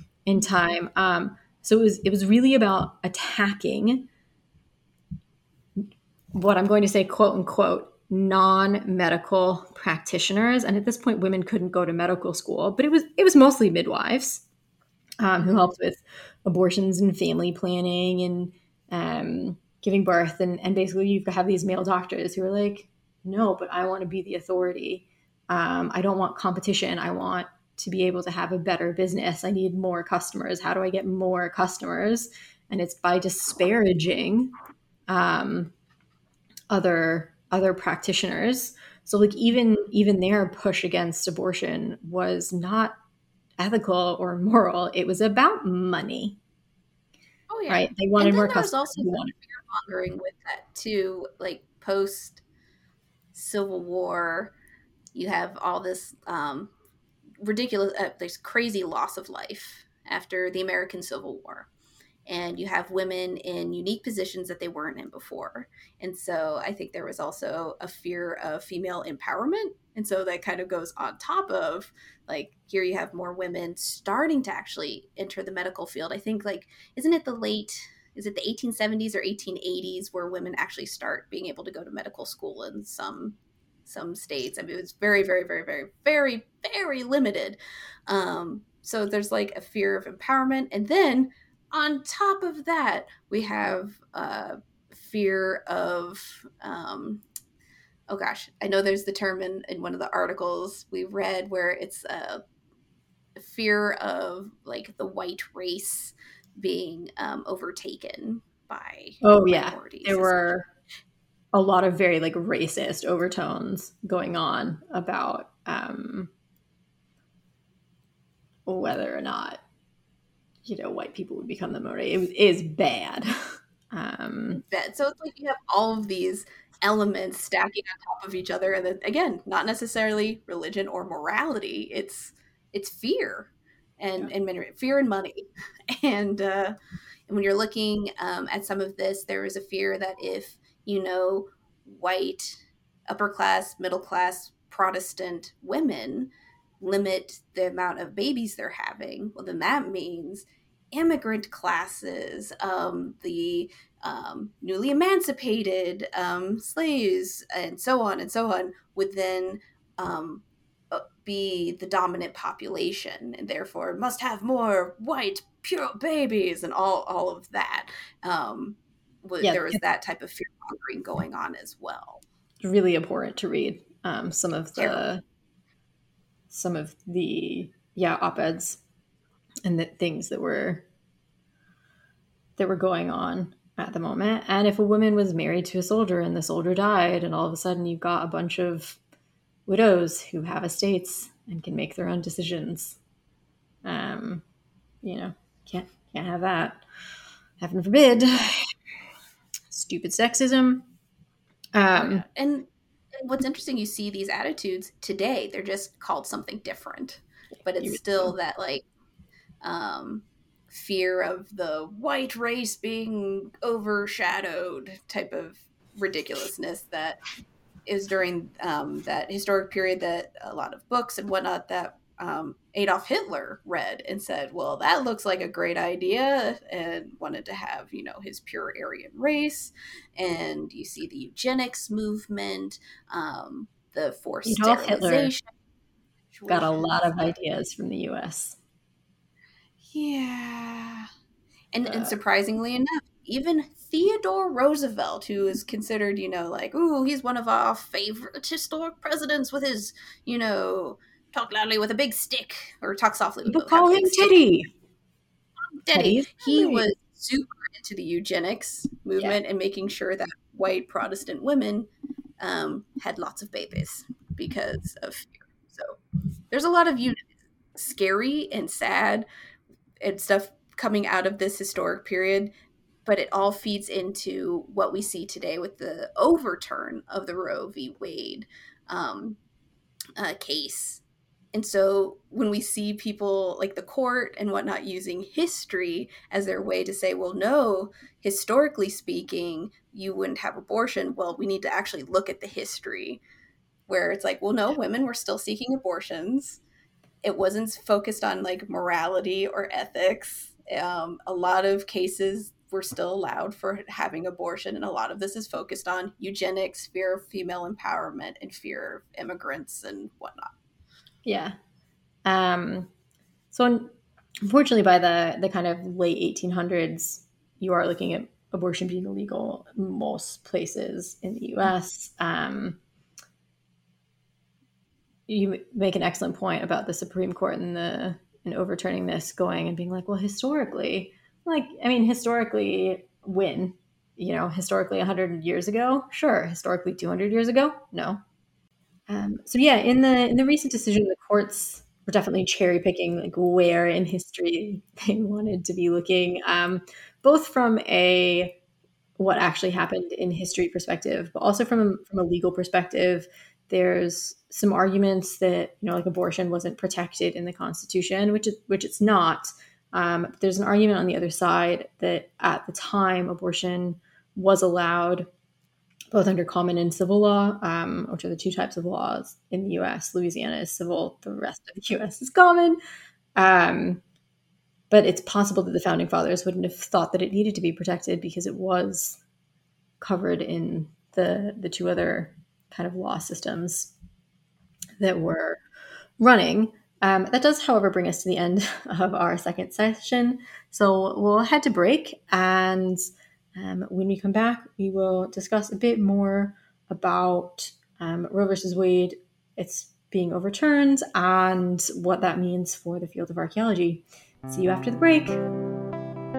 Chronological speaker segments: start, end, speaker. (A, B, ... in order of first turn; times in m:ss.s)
0:00.3-0:04.1 A
0:05.8-0:14.4 A
0:15.2-0:34.5 A
0:35.1-0:35.7 A
0:36.7-0:43.0 A
0:43.6-0:46.4 A
0:47.5-0:52.4 B
0:47.7-0:49.3 A
0:53.3-0:54.5 B
0:55.2-0:56.7 B
0:57.4-1:01.7 B
1:02.3-1:37.2 B
1:38.1-1:42.4 B
1:43.4-1:50.5 B
1:49.2-1:50.7 A
1:51.5-1:56.3 A
1:58.7-1:59.6 A
2:00.6-2:04.6 A
2:04.5-2:16.8 B
2:17.3-2:26.3 B
2:26.8-2:52.2 B
2:49.4-2:49.8 A
2:52.6-2:55.2 A
2:54.8-2:55.0 B
2:56.5-2:58.8 A
2:59.6-3:00.8 A
3:02.6-3:09.0 A
3:09.7-3:13.0 A
3:13.8-3:14.4 A
3:15.0-3:16.8 A
3:17.6-3:18.7 A
3:19.7-3:20.9 A
3:21.7-3:22.2 A
3:21.9-3:28.8 B
3:27.8-3:28.3 A
3:29.6-3:37.2 B
3:37.9-3:55.5 B
3:54.5-3:55.3 A
3:56.3-3:57.3 B
3:56.5-3:58.6 A
3:59.9-4:01.1 B
4:01.7-4:14.4 B
4:01.8-4:02.2 A
4:13.5-4:14.7 A
4:15.8-4:21.9 B
4:15.9-4:16.9 A
4:22.4-4:26.0 B
4:26.5-4:27.2 B
4:27.8-4:29.3 B
4:30.0-4:32.5 B
4:33.0-4:39.4 B
4:40.2-4:41.0 B
4:41.5-4:53.2 B
4:53.9-4:56.6 B
4:57.2-5:10.5 B
5:11.2-5:11.6 A
5:12.2-5:12.9 A
5:13.5-5:13.9 A
5:14.4-5:22.8 A
5:25.3-5:38.2 A
5:39.1-5:48.6 A
5:49.2-6:05.3 A
6:06.1-6:12.8 A
6:13.4-6:14.0 A
6:14.9-6:19.2 A
6:20.0-6:23.9 A
6:25.0-6:25.6 A
6:26.2-6:33.0 A
6:33.6-6:45.4 A